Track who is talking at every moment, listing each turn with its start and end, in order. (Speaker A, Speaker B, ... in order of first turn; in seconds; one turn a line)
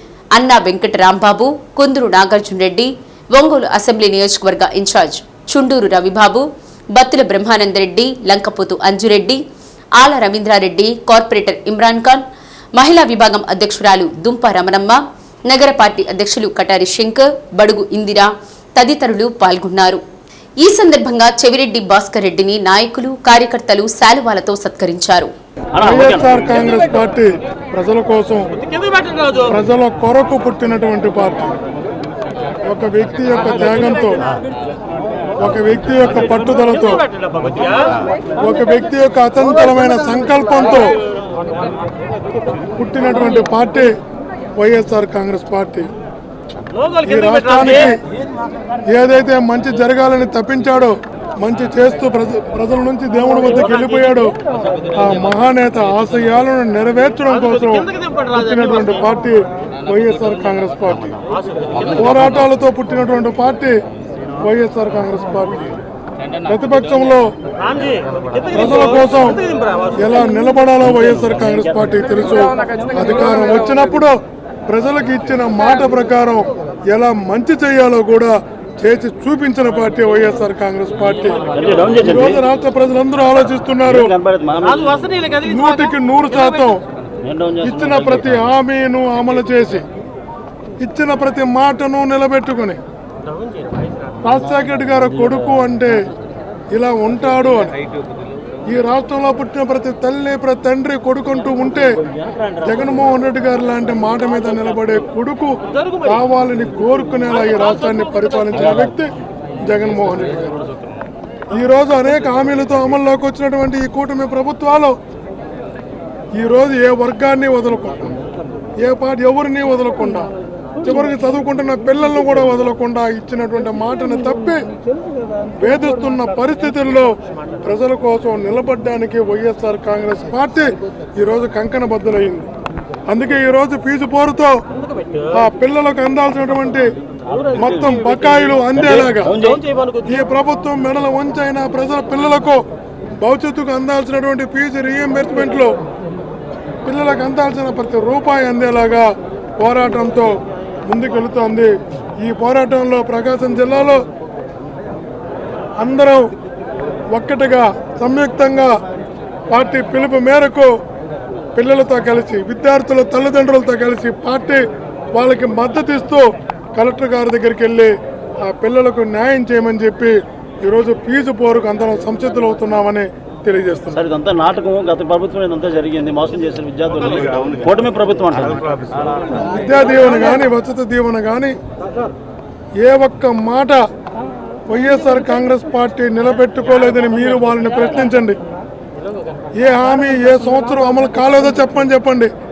Speaker A: 0.3-9.4
Speaker A: 10.0-12.2
Speaker A: 12.8-20.0
Speaker A: 20.6-25.3
Speaker B: 25.7-26.4
Speaker C: 25.8-28.5
Speaker C: 29.4-31.6
Speaker C: 32.6-34.2
Speaker C: 35.4-37.0
Speaker C: 38.4-41.0
Speaker C: 42.8-43.9
Speaker C: 44.6-45.9
Speaker C: 47.0-48.0
Speaker C: 48.9-54.3
Speaker C: 54.9-61.2
Speaker C: 61.9-63.7
Speaker C: 64.4-65.8
Speaker C: 66.4-67.3
Speaker C: 68.5-84.1
Speaker B: 71.0-71.6
Speaker B: 81.5-82.4
Speaker B: 83.8-85.3
Speaker C: 85.4-86.8
Speaker B: 87.2-88.4
Speaker C: 87.6-89.8
Speaker C: 90.8-92.8
Speaker C: 94.2-96.0
Speaker C: 96.7-97.7
Speaker C: 98.7-101.9
Speaker C: 102.6-109.1
Speaker C: 109.6-110.6
Speaker C: 111.5-115.0
Speaker C: 116.4-118.2
Speaker C: 118.8-120.3
Speaker C: 120.8-124.7
Speaker C: 125.6-132.5
Speaker C: 133.1-134.6
Speaker C: 135.3-136.9
Speaker B: 137.4-137.9
Speaker C: 137.5-139.4
Speaker B: 138.8-139.6
Speaker C: 140.0-142.6
Speaker C: 143.2-145.8
Speaker C: 146.8-150.3
Speaker C: 150.9-154.0
Speaker C: 155.8-156.3
Speaker C: 157.1-158.7
Speaker C: 159.5-160.7
Speaker C: 161.6-164.6
Speaker C: 165.1-174.0
Speaker B: 173.9-179.3
Speaker C: 179.4-181.6
Speaker C: 182.8-183.8
Speaker C: 184.7-188.4
Speaker C: 189.5-192.3